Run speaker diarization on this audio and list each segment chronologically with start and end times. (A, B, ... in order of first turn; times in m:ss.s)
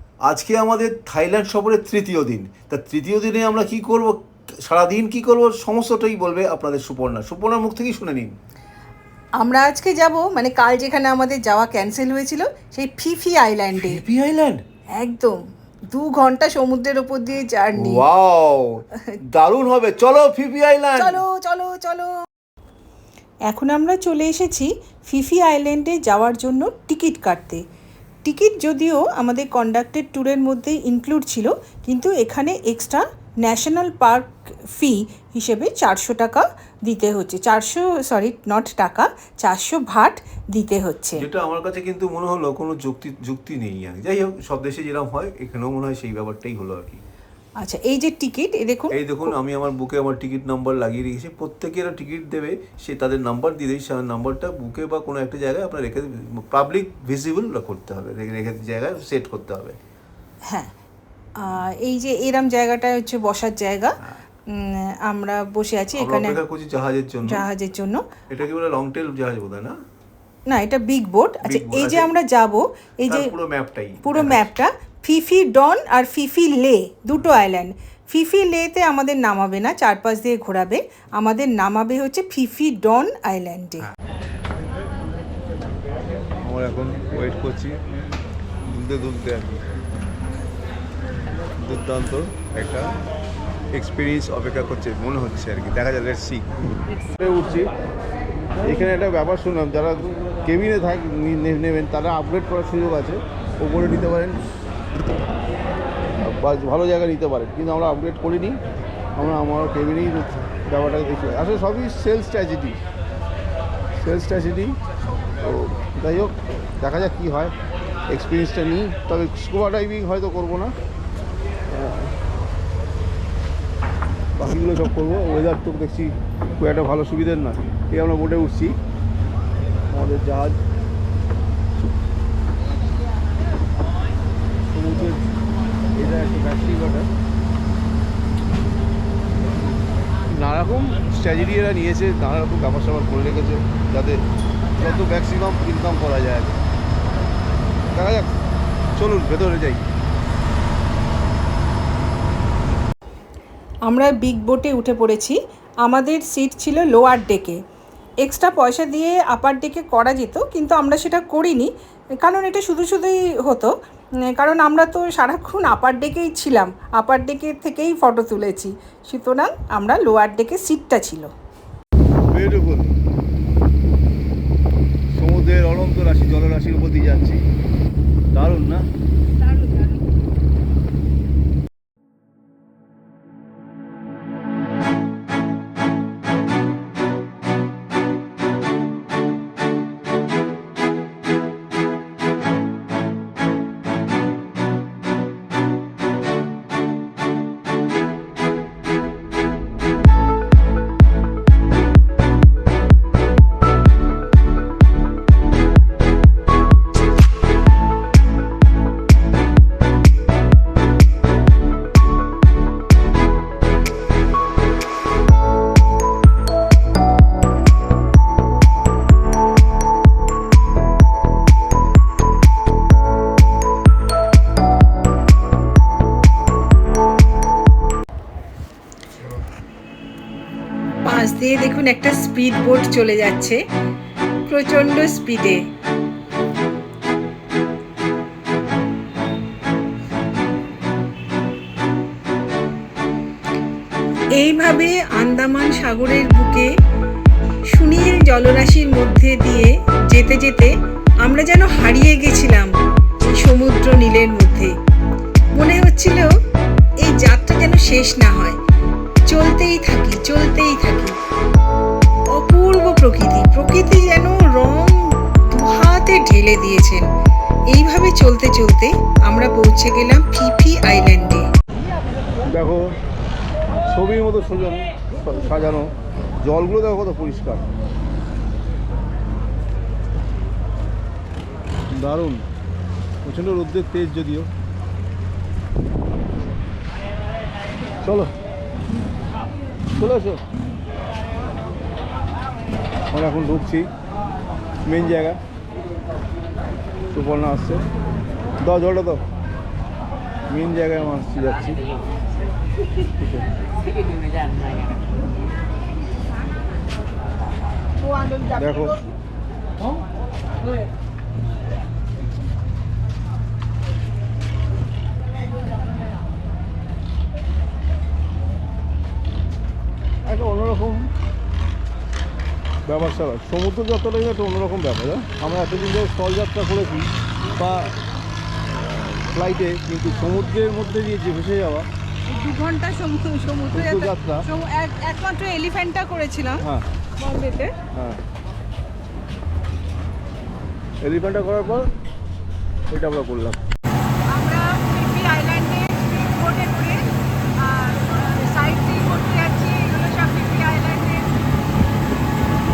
0:00.3-0:08.3 A
0:09.4-0:14.0 B
0:13.8-0:14.6 A
0:15.0-0:15.4 B
0:15.9-0:18.0 B
0:17.9-0:18.6 A
0:19.3-0:21.2 A
0:21.0-0:22.1 B
0:23.5-0:27.6 B
0:28.2-0:41.2 B
0:41.2-0:47.0 A
0:47.6-0:49.3 B
0:49.0-0:59.8 A
1:01.4-1:04.0 B
1:04.5-1:06.4 B
1:06.0-1:07.4 A
1:07.3-1:08.0 B
1:08.3-1:09.7 A
1:10.5-1:13.3 B
1:11.4-1:12.1 A
1:13.1-1:14.4 A
1:14.0-1:23.9 B
1:26.4-1:27.8 C
1:28.7-1:29.6 C
1:31.6-1:32.9 C
1:33.7-1:36.4 C
1:37.1-1:37.7 C
1:38.6-1:44.4 C
1:46.2-1:48.6 C
1:49.2-1:52.8 C
1:54.0-1:54.8 C
1:55.4-1:57.5 C
1:58.1-2:00.7 C
2:01.7-2:02.1 C
2:04.4-2:08.8 C
2:09.9-2:10.6 C
2:14.7-2:15.2 C
2:16.0-2:17.1 C
2:20.3-2:24.2 C
2:24.8-2:26.6 C
2:27.9-2:28.3 C
2:29.0-2:29.8 C
2:33.9-2:37.6 B
2:38.2-2:41.7 B
2:42.2-2:43.7 B
2:44.3-2:51.3 B
2:52.3-2:52.9 C
2:55.1-2:57.4 C
2:58.3-2:58.8 C
3:51.0-3:53.6 B
3:54.5-3:55.6 B
4:04.4-4:06.7 B
4:07.7-4:10.7 B
4:11.2-4:12.7 B
4:13.2-4:14.7 B
4:15.5-4:16.3 B
4:17.0-4:18.6 B
4:19.3-4:21.2 B
4:22.3-4:27.0 B
4:27.7-4:31.4 B
4:32.4-4:32.9 C
4:33.9-4:37.6 C
4:41.9-4:42.4 C
4:43.2-4:44.5 C
4:48.0-4:48.3 C
4:50.0-4:50.4 C
4:53.1-4:53.9 C
4:54.8-4:55.4 C
4:57.1-4:57.8 C
4:58.6-4:59.2 C
5:00.5-5:01.8 C
5:03.0-5:03.4 C
5:08.5-5:09.0 C
5:20.2-5:21.1 C
5:22.8-5:27.9 C
5:28.7-5:31.9 C
5:32.3-5:36.6 B
5:33.7-5:34.4 C
5:37.2-5:37.7 B
5:37.9-5:38.2 C
5:41.0-5:41.9 C
5:42.9-5:43.6 C
5:44.3-5:47.0 B
5:47.6-5:51.2 B